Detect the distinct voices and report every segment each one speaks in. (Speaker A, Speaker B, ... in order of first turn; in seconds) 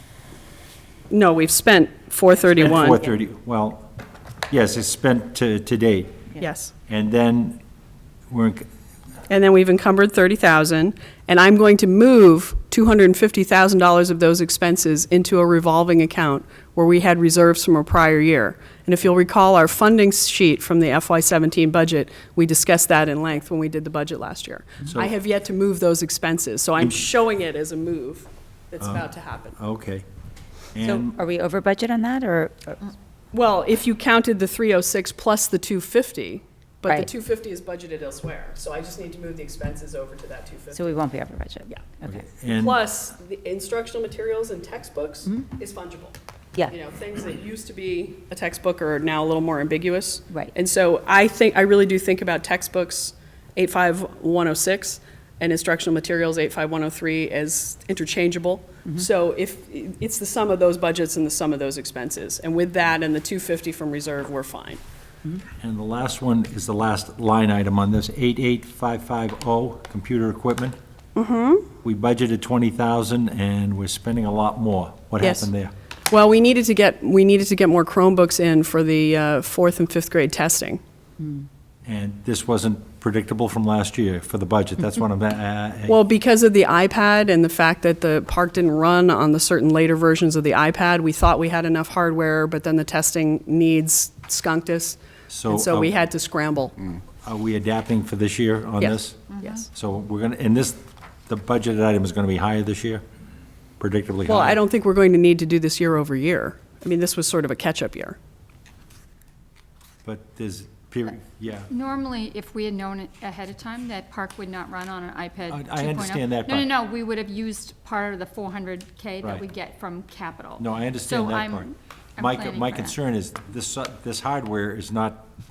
Speaker A: 1.1-3.0, 6.4-6.7, 9.3-29.6, 33.3-40.9, 42.4-46.1, 46.7-64.8, 71.1-71.7, 75.2-75.5, 76.1-80.8, 85.9-97.0, 98.8-99.7, 104.2-108.2
Speaker B: 2.6-3.9, 4.5-6.3, 6.9-7.6, 8.3-8.7, 24.9-25.1, 28.8-29.1, 29.6-30.0, 30.7-31.2, 42.0-42.8, 65.6-70.8, 71.8-75.7, 81.8-86.0, 95.3-95.9, 97.2-103.0, 103.8-104.6, 110.0-111.7, 115.5-116.7, 120.6-125.3
Speaker C: 30.8-32.9, 40.7-42.1, 81.2-81.5
Speaker D: 99.3-99.7, 111.7-123.0